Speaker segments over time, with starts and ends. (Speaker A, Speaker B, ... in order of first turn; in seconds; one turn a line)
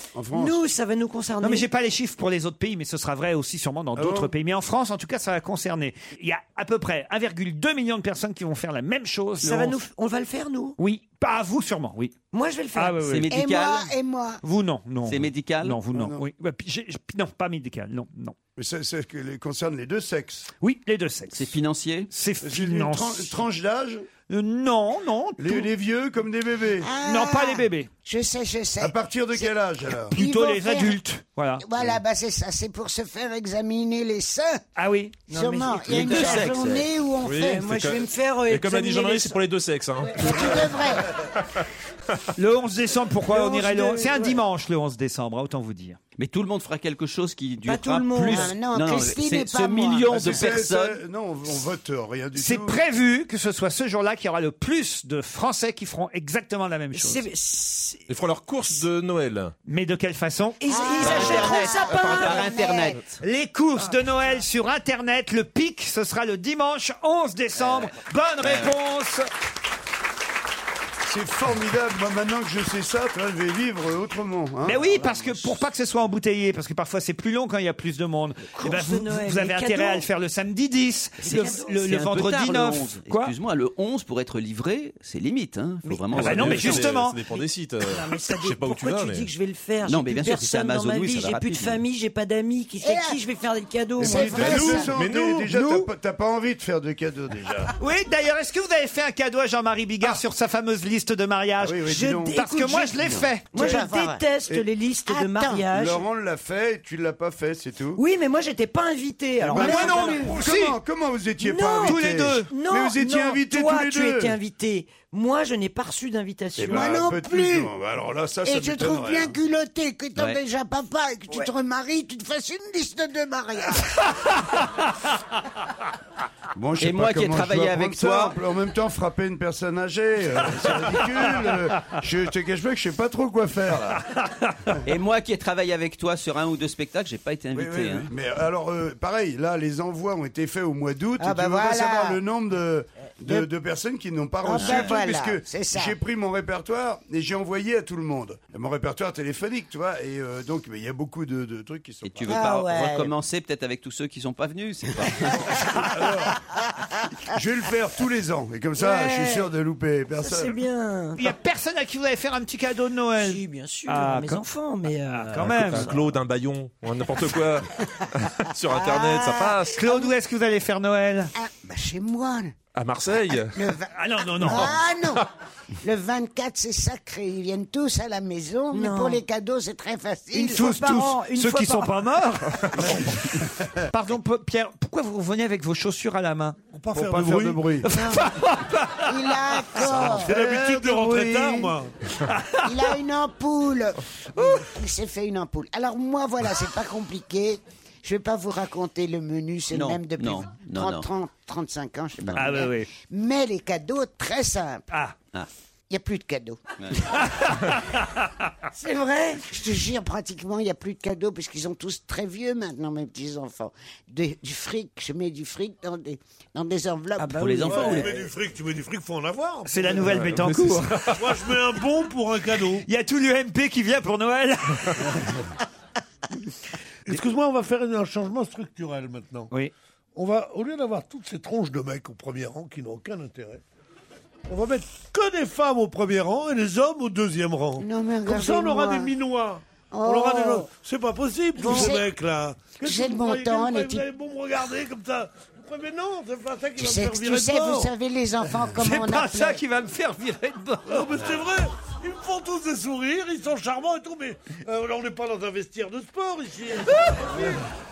Speaker A: 0.1-0.7
Speaker B: 0.3-1.7
Speaker C: 1.4-9.8
Speaker A: 3.9-4.3
Speaker B: 9.4-10.8
Speaker C: 10.8-12.1
Speaker B: 12.3-13.0
Speaker C: 12.7-13.3
Speaker D: 13.0-13.9
Speaker E: 13.3-14.4
Speaker C: 14.4-18.4
Speaker D: 15.0-15.8
Speaker A: 15.9-16.2
Speaker A: 18.6-20.5
Speaker C: 20.6-21.5
Speaker D: 21.3-22.1
Speaker C: 22.1-23.4
Speaker A: 22.4-24.1
Speaker C: 24.3-25.7
Speaker A: 25.4-26.9
Speaker E: 26.8-29.5
Speaker C: 27.0-27.9
Speaker A: 28.8-30.2
Speaker E: 30.1-31.0
Speaker C: 30.1-31.6
Speaker E: 31.6-34.6
Speaker C: 34.8-35.2
Speaker B: 35.3-36.7
Speaker E: 35.3-37.6
Speaker D: 35.8-36.9
Speaker F: 37.2-40.8
Speaker B: 37.5-39.4
Speaker E: 40.2-41.0
Speaker C: 42.4-46.0
Speaker B: 43.4-44.3
Speaker D: 46.2-51.0
Speaker B: 47.6-48.5
Speaker E: 48.2-50.3
Speaker A: 50.1-52.8
Speaker C: 52.3-57.3
Speaker B: 56.9-58.0
Speaker F: 58.1-59.5
Speaker C: 59.7-60.6
Speaker B: 60.6-62.5
Speaker E: 60.7-63.0
Speaker D: 61.0-63.1
Speaker C: 63.2-69.3
Speaker B: 63.8-64.4
Speaker D: 67.5-68.8
Speaker A: 71.0-74.9
Speaker C: 74.6-83.3
Speaker B: 74.9-75.3
Speaker B: 78.5-80.1
Speaker D: 81.2-86.9
Speaker B: 81.4-81.7
Speaker C: 86.1-87.2
Speaker F: 86.1-89.3
Speaker B: 87.8-94.7
Speaker D: 89.8-91.8
Speaker E: 92.8-93.2
Speaker E: 94.0-94.9
Speaker A: 94.0-97.7
Speaker F: 94.9-95.5
Speaker C: 95.5-95.8
Speaker C: 97.8-103.8
Speaker A: 101.6-102.4
Speaker B: 101.9-106.0
Speaker E: 103.5-104.3
Speaker E: 105.1-105.7
Speaker A: 105.7-108.0
Speaker B: 108.0-110.4
Speaker A: 109.4-114.4
Speaker C: 109.5-110.8
Speaker E: 109.6-110.3
Speaker B: 111.4-116.9
Speaker C: 111.8-112.5
Speaker A: 116.6-119.4
Speaker E: 116.7-117.7
Speaker E: 118.4-124.1
Speaker D: 120.2-120.4
Speaker A: 126.5-134.1
Speaker D: 126.8-128.4
Speaker D: 134.8-138.1
Speaker A: 137.5-152.5
Speaker E: 141.2-142.2
Speaker E: 144.4-146.0
Speaker D: 144.6-145.0
Speaker D: 152.0-155.4
Speaker E: 152.3-153.1
Speaker A: 155.8-156.4
Speaker A: 157.3-160.6
Speaker B: 158.8-159.5
Speaker B: 160.2-161.2
Speaker C: 161.2-164.4
Speaker B: 163.2-166.1
Speaker C: 165.1-165.9
Speaker F: 165.4-169.8
Speaker E: 168.8-170.1
Speaker C: 169.7-171.3
Speaker E: 171.4-172.5
Speaker F: 172.7-173.6
Speaker E: 173.6-175.2
Speaker C: 173.9-174.8
Speaker E: 175.8-180.8
Speaker B: 178.7-179.2
Speaker B: 180.3-182.0
Speaker C: 180.5-183.2
Speaker C: 183.9-186.6
Speaker G: 186.7-187.6
Speaker A: 186.9-187.9
Speaker C: 187.8-189.9
Speaker E: 187.9-188.3
Speaker E: 189.1-190.3
Speaker A: 189.9-191.7
Speaker G: 190.0-191.9
Speaker C: 192.3-192.7
Speaker E: 192.6-204.8
Speaker D: 199.7-201.1
Speaker D: 202.2-202.5
Speaker C: 202.3-202.9
Speaker E: 205.9-206.6
Speaker C: 207.5-207.8
Speaker B: 208.8-209.4
Speaker E: 209.5-218.0
Speaker B: 217.2-218.1
Speaker D: 217.4-218.2
Speaker G: 217.6-220.4
Speaker C: 219.7-221.0
Speaker F: 220.0-221.3
Speaker G: 221.1-222.8
Speaker C: 222.8-225.2
Speaker G: 227.1-229.5
Speaker G: 230.1-233.6
Speaker G: 234.5-247.9
Speaker E: 237.8-239.1
Speaker E: 239.9-240.7
Speaker E: 241.6-242.1
Speaker E: 242.8-244.1
Speaker E: 246.8-249.6
Speaker C: 248.8-251.1
Speaker G: 250.9-257.6